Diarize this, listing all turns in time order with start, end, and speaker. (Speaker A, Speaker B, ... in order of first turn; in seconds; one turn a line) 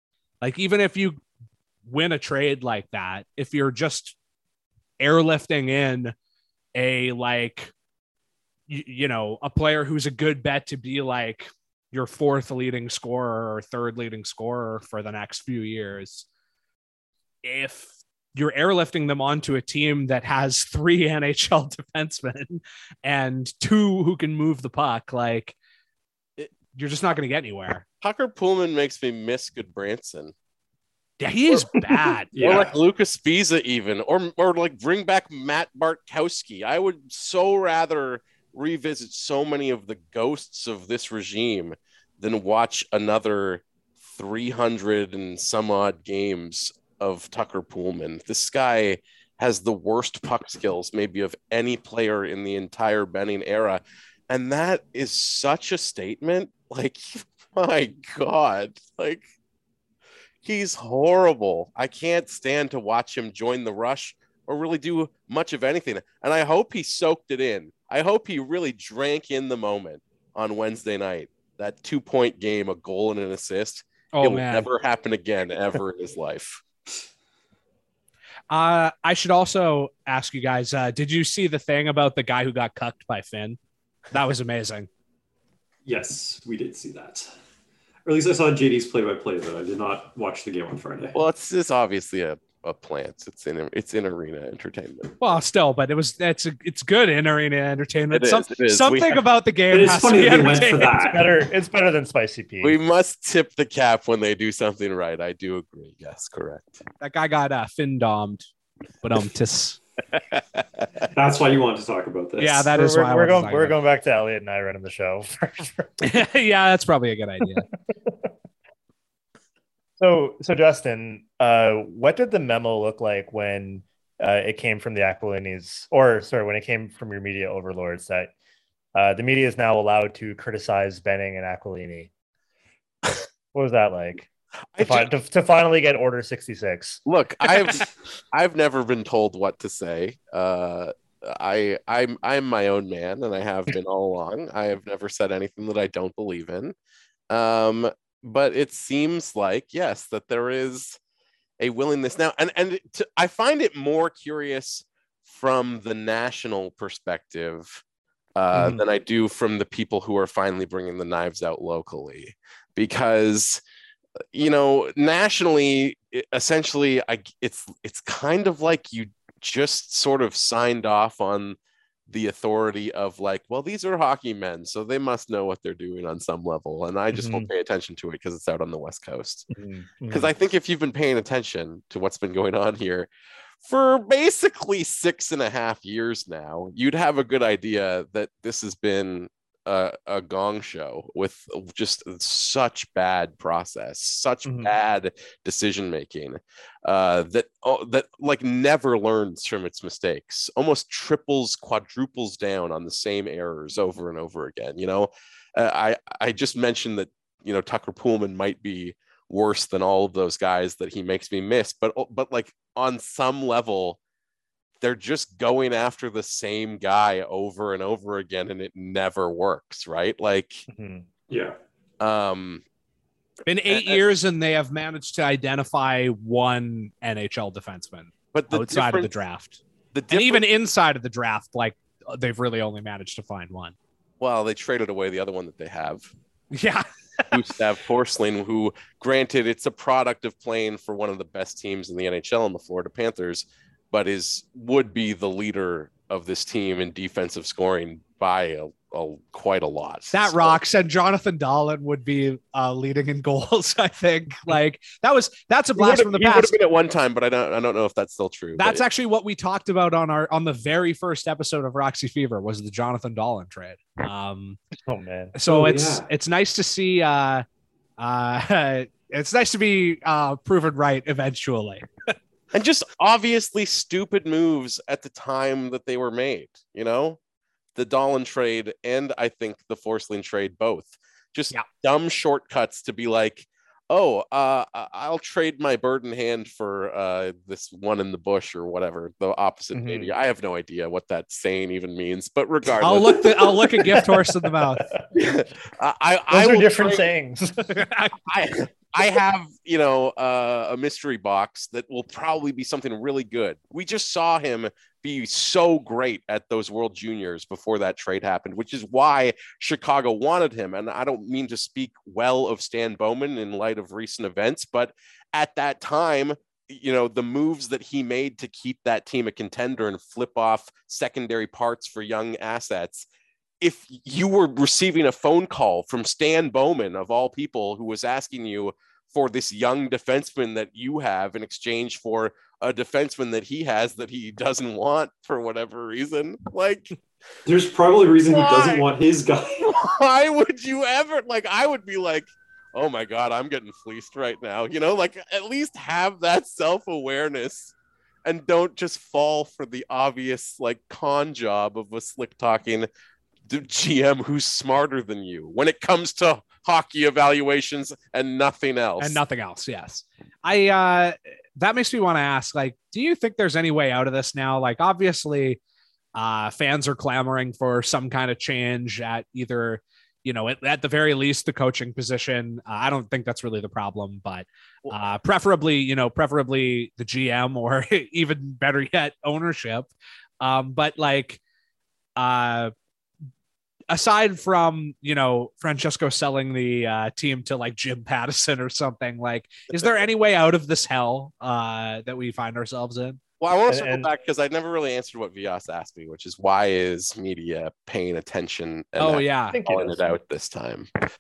Speaker A: 0.4-1.2
Speaker A: 1.9-4.2
Speaker A: 5.0-6.1
Speaker A: 6.8-7.7
Speaker A: 8.7-16.3
Speaker A: 17.4-25.6
Speaker A: 26.8-27.8
Speaker B: 28.0-30.3
Speaker A: 31.2-32.3
Speaker C: 32.3-32.8
Speaker B: 32.4-59.2
Speaker B: 60.4-76.6
Speaker A: 74.1-74.7
Speaker A: 78.5-83.6
Speaker A: 84.1-84.9
Speaker C: 85.8-87.3
Speaker C: 88.1-91.2
Speaker B: 91.1-95.2
Speaker A: 95.2-101.2
Speaker B: 98.1-99.2
Speaker C: 99.7-101.2
Speaker D: 101.1-102.8
Speaker B: 102.6-106.8
Speaker A: 107.0-108.5
Speaker A: 109.0-109.8
Speaker C: 111.1-112.7
Speaker A: 112.4-113.8
Speaker D: 112.7-116.0
Speaker A: 116.0-117.7
Speaker D: 118.1-118.3
Speaker D: 120.0-128.3
Speaker D: 128.9-132.1
Speaker D: 133.5-137.0
Speaker B: 134.8-135.1
Speaker B: 137.1-146.7
Speaker B: 147.3-151.0
Speaker B: 151.6-157.8
Speaker B: 158.4-163.6
Speaker D: 158.5-158.8
Speaker B: 164.3-171.6
Speaker B: 172.1-179.5
Speaker D: 177.1-177.5
Speaker D: 179.5-180.3
Speaker B: 180.1-183.1
Speaker B: 183.6-214.0
Speaker D: 194.5-194.7
Speaker B: 214.8-220.7
Speaker D: 220.7-221.1
Speaker C: 221.3-221.6
Speaker B: 222.0-222.6
Speaker A: 223.5-233.8
Speaker B: 223.7-224.0
Speaker B: 228.3-229.1
Speaker B: 229.9-230.4
Speaker B: 234.2-236.1
Speaker A: 236.5-236.8
Speaker B: 237.3-250.6
Speaker A: 250.1-256.5
Speaker B: 255.8-258.8
Speaker A: 258.6-264.6
Speaker D: 264.9-265.4
Speaker A: 265.4-267.4
Speaker C: 265.5-266.1
Speaker A: 268.0-272.1
Speaker B: 272.5-277.2
Speaker B: 277.8-293.4
Speaker D: 289.7-290.1
Speaker A: 292.8-294.9
Speaker D: 293.8-295.0
Speaker B: 295.1-297.0
Speaker D: 296.3-297.7
Speaker A: 297.7-298.2
Speaker B: 298.3-323.1
Speaker B: 323.6-336.9
Speaker C: 337.5-339.6
Speaker B: 338.3-338.9
Speaker B: 339.5-347.7
Speaker B: 348.2-352.9
Speaker B: 353.5-359.2
Speaker A: 359.0-365.6
Speaker A: 366.2-381.4
Speaker A: 382.2-382.7
Speaker A: 383.9-393.2
Speaker B: 393.4-400.9
Speaker D: 393.7-394.1
Speaker A: 399.0-399.6
Speaker D: 399.5-400.1